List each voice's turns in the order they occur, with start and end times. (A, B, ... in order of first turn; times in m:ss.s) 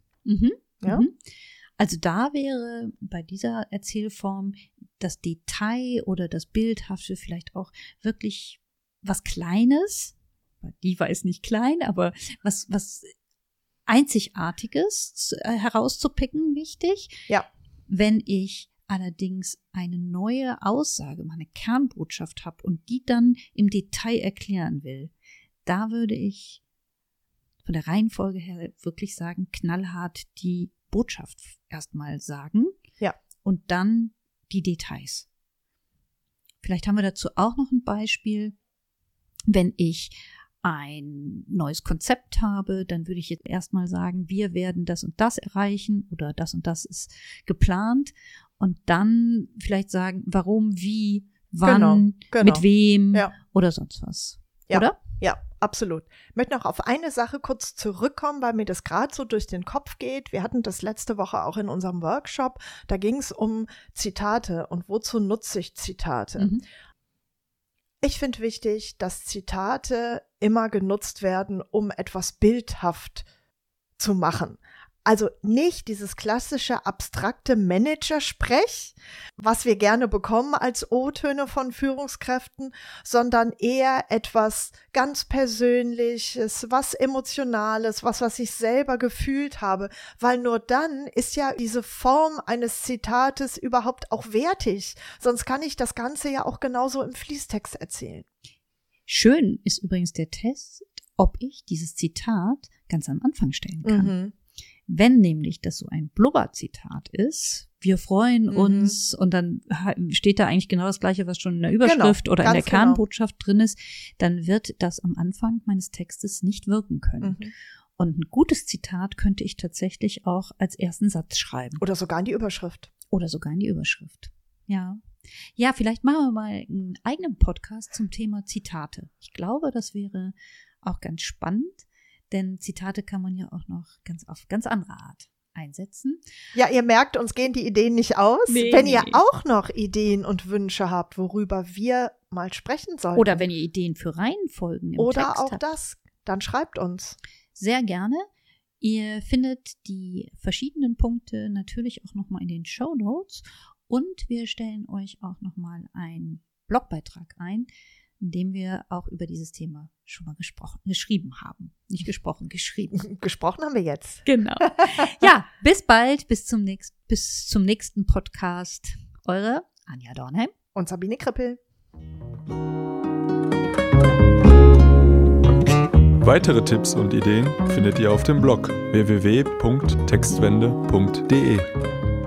0:00.2-0:01.1 A
0:01.8-0:13.1 A
0:13.9-0:17.2 A
0:17.9-0:25.1 A
0:25.6-0:26.6 A
0:27.6-0:32.8 A
0:33.4-0:35.3 A
0:36.6-0:38.5 A
0:39.5-0:55.0 A
0:51.6-0:53.3 B
0:54.7-1:06.5 B
1:06.4-1:06.6 A
1:08.0-1:13.2 B
1:14.0-1:38.2 B
1:39.1-1:44.2 A
1:43.8-1:44.3 B
1:44.9-1:57.4 A
1:48.5-1:49.0 B
1:51.8-1:53.0 B
1:57.2-1:57.5 B
1:58.0-2:01.8 A
2:01.8-2:02.9 B
2:03.1-2:05.0 A
2:05.6-2:16.2 A
2:16.5-2:23.4 B
2:18.5-2:19.2 A
2:23.1-2:25.6 A
2:25.0-2:27.2 B
2:27.5-2:28.2 A
2:28.8-2:37.7 A
2:38.2-2:43.1 A
2:42.9-2:45.0 B
2:44.2-2:50.5 A
2:50.8-2:51.6 B
2:56.2-3:01.7 C